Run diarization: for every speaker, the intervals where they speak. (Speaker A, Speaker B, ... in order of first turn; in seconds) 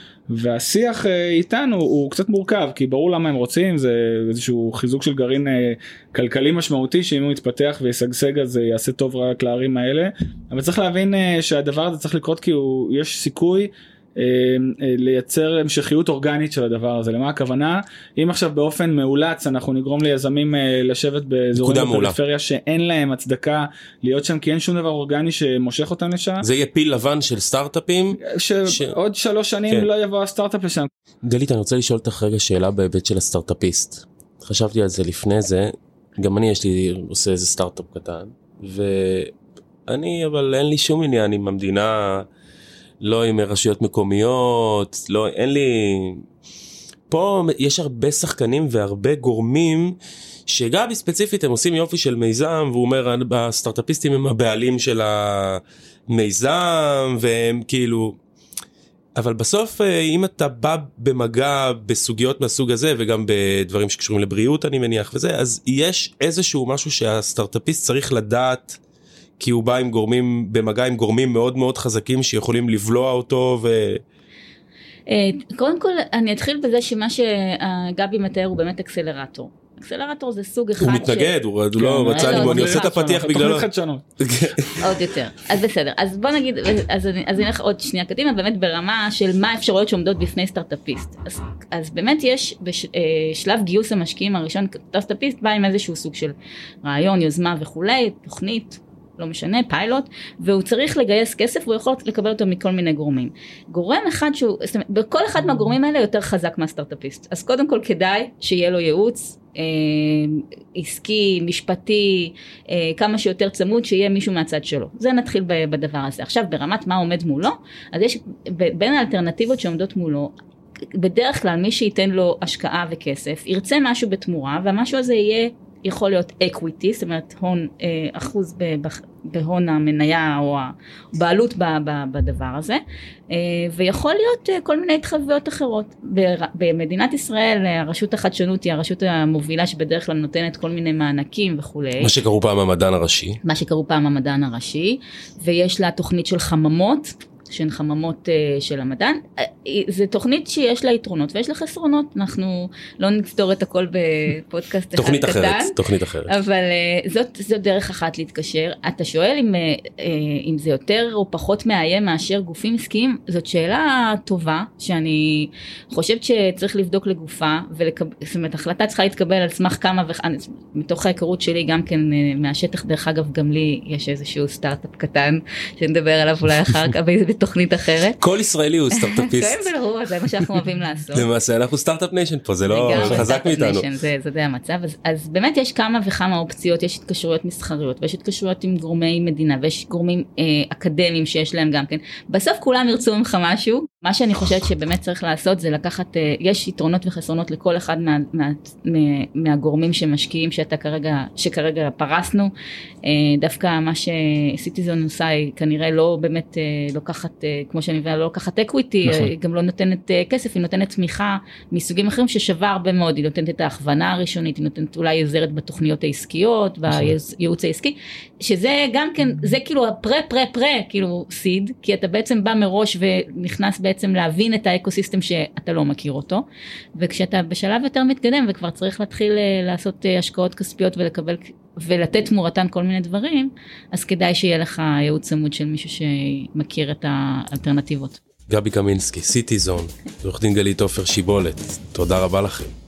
Speaker A: 0.3-26.5, 28.2-30.9, 81.8-84.0
Speaker B: 21.6-22.1, 26.4-28.9, 31.2-39.3, 39.9-42.3, 43.0-46.2, 47.1-50.0, 50.5-58.2, 59.2-68.8, 69.4-74.0, 80.8-83.7, 84.2-84.8, 142.0-143.4, 154.9-156.3, 178.2-179.7, 181.1-183.9, 238.5-242.7
Speaker C: 75.1-81.3, 82.0-83.0, 84.8-120.3, 120.9-142.1, 143.4-178.2, 178.9-181.2, 182.7-202.5, 203.0-226.4, 226.9-238.2